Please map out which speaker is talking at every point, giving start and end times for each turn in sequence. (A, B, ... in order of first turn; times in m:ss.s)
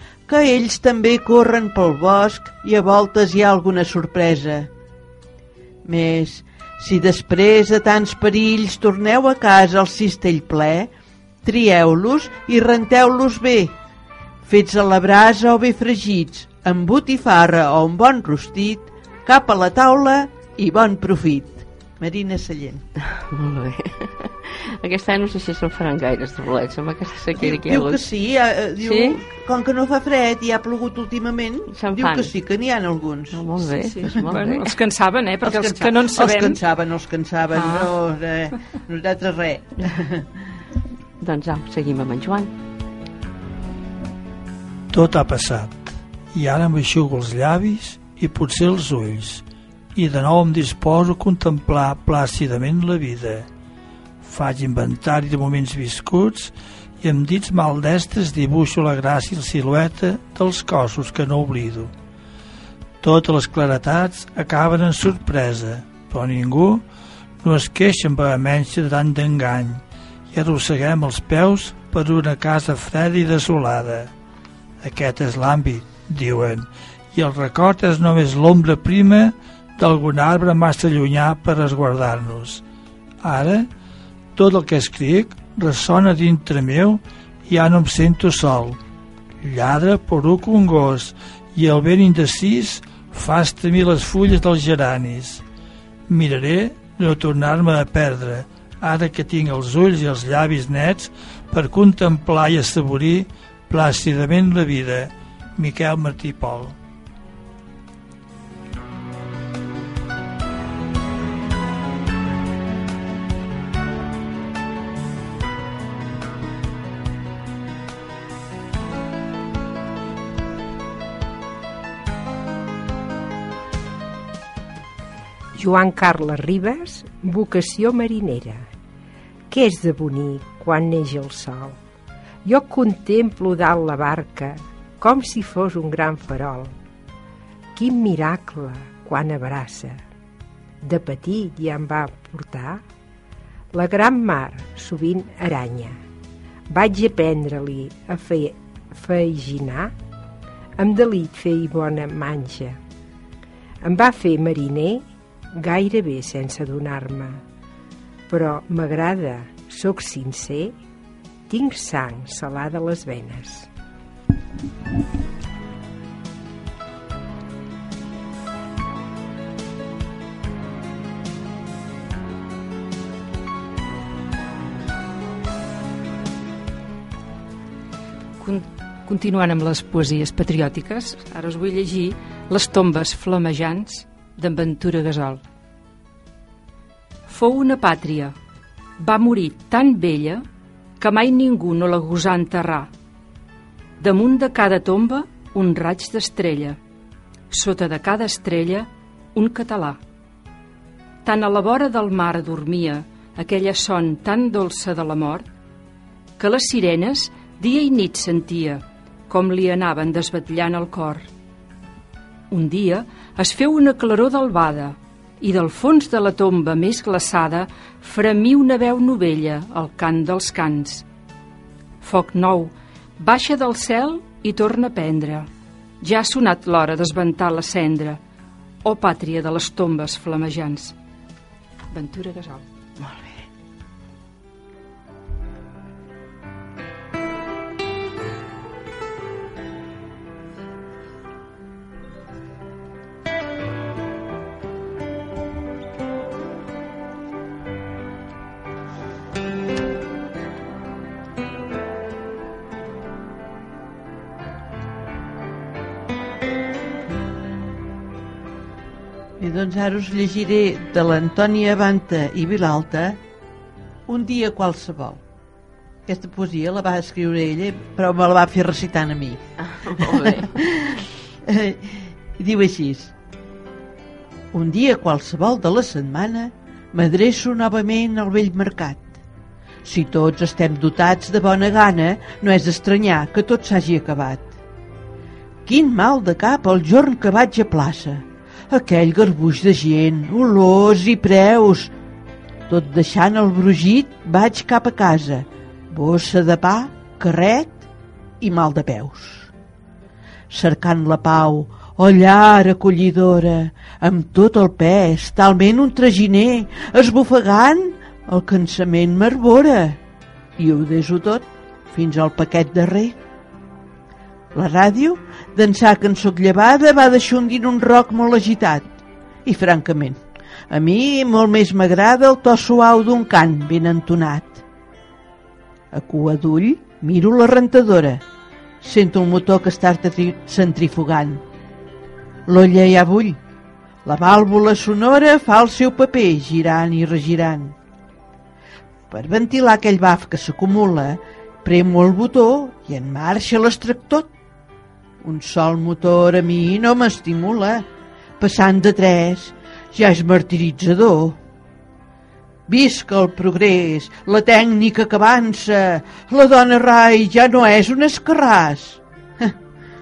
0:00.3-0:04.7 A
0:05.8-0:10.9 A
0:11.4-0:13.8 A
0:14.4-0:22.8 A
0:23.0-0:28.1 B
0:27.4-0:33.5 A
0:28.8-0:29.2 B
0:31.7-0:32.3 B
0:33.3-0:34.7 B
0:33.7-0:36.6 C
0:35.4-0:40.3 A
0:37.5-0:37.9 C
0:41.2-0:42.5 B
0:44.9-0:53.5 D
0:54.2-1:01.9 D
1:03.0-1:06.8 D
1:07.4-1:14.1 D
1:14.8-1:22.6 D
1:23.2-1:23.7 D
1:24.4-1:28.8 D
1:29.4-1:35.4 D
1:36.1-1:46.8 D
2:05.6-2:08.7 E
2:09.5-2:11.8 E
2:12.4-2:16.8 E
2:17.8-2:20.0 E
2:20.8-2:22.8 E
2:23.7-2:26.0 E
2:26.7-2:29.9 E
2:30.8-2:32.8 E
2:33.8-2:35.0 E
2:35.6-2:37.4 E
2:38.3-2:40.7 E
2:41.5-2:43.7 E
2:58.4-3:05.4 C
3:07.3-3:08.4 C
3:09.0-3:10.4 C
3:11.0-3:12.9 C
3:14.0-3:16.8 C
3:17.5-3:20.0 C
3:21.2-3:25.4 C
3:26.4-3:31.3 C
3:32.5-3:41.0 C
3:42.0-3:45.5 C
3:46.0-3:48.2 C
3:48.8-3:51.0 C
3:51.9-3:52.7 C
3:53.0-3:53.5 B
4:19.4-4:23.2 A
4:24.1-4:25.2 A
4:26.1-4:29.4 A
4:29.6-4:30.6 B
4:30.0-4:31.0 A
4:31.5-4:33.1 A
4:34.5-4:39.2 A
4:39.8-4:44.6 A
4:45.7-4:51.9 A
4:52.7-4:57.9 A
4:58.4-4:59.5 A
5:00.5-5:10.0 A
5:10.6-5:13.2 A
5:14.5-5:24.6 A
5:25.9-5:28.2 A
5:28.8-5:31.4 A
5:32.5-5:33.4 A
5:34.0-5:37.8 A
5:39.1-5:44.3 A
5:45.2-5:47.9 A
5:48.4-5:51.4 A
5:52.7-5:59.6 A